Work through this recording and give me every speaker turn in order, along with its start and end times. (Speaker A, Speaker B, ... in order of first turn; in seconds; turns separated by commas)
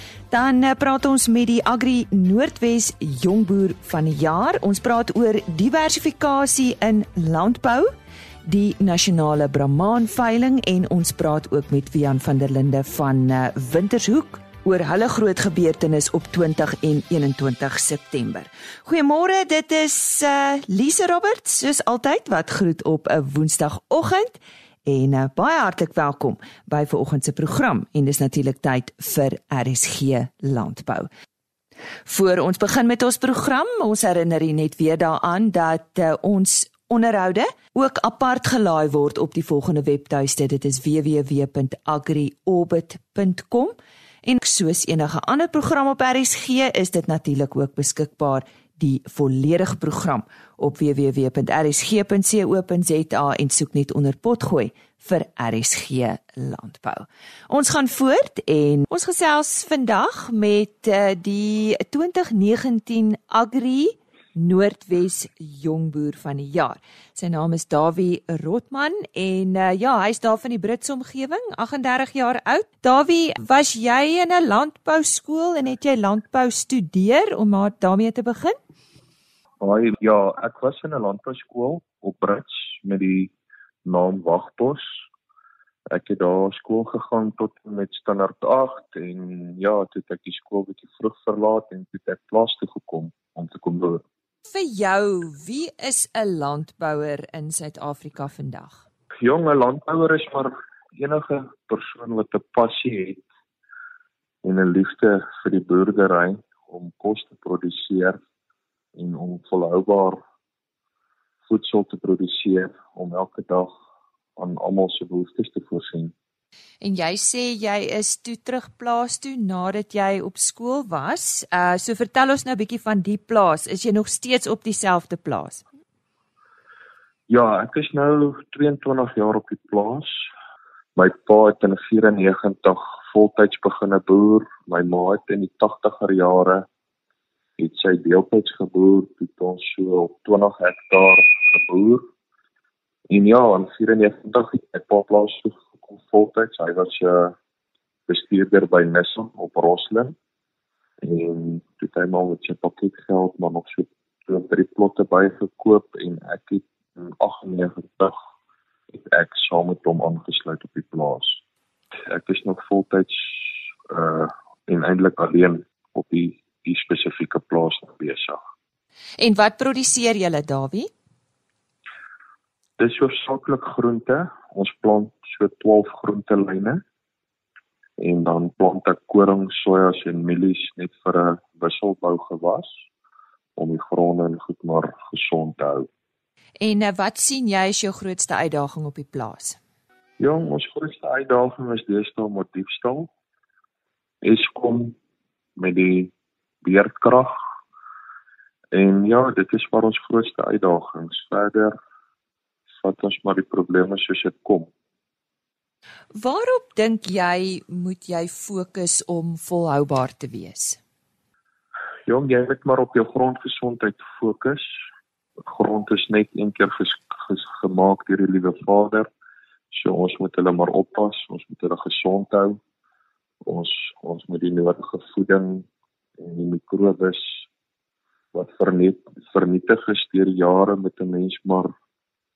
Speaker A: 0.3-7.9, Speaker A: 8.4-31.1, Speaker A: 32.1-78.6, Speaker B: 79.6-83.3, Speaker B: 83.8-84.9, Speaker B: 85.9-94.0, Speaker A: 94.5-98.8, Speaker B: 99.2-103.2, Speaker B: 104.4-108.2, Speaker B: 108.9-110.2, Speaker B: 111.5-113.7, Speaker B: 114.4-116.1, Speaker A: 116.8-125.7, Speaker B: 127.3-130.2, Speaker B: 131.0-136.7, Speaker B: 137.6-142.1, Speaker B: 143.1-147.3, Speaker B: 148.1-150.2, Speaker B: 151.0-158.2, Speaker B: 158.9-161.4, Speaker B: 162.1-168.4, Speaker A: 169.2-170.9, Speaker B: 172.8-176.8, Speaker B: 178.0-182.7, Speaker B: 183.6-185.9, Speaker A: 186.6-189.6, Speaker B: 190.2-193.1, Speaker B: 194.2-195.0, Speaker B: 195.6-197.4, Speaker B: 198.7-201.8, Speaker B: 202.8-204.7, Speaker A: 206.2-210.8, Speaker B: 212.1-214.7, Speaker B: 215.4-219.1, Speaker B: 219.7-222.6, Speaker B: 223.4-225.7, Speaker B: 226.2-227.4, Speaker B: 228.3-231.7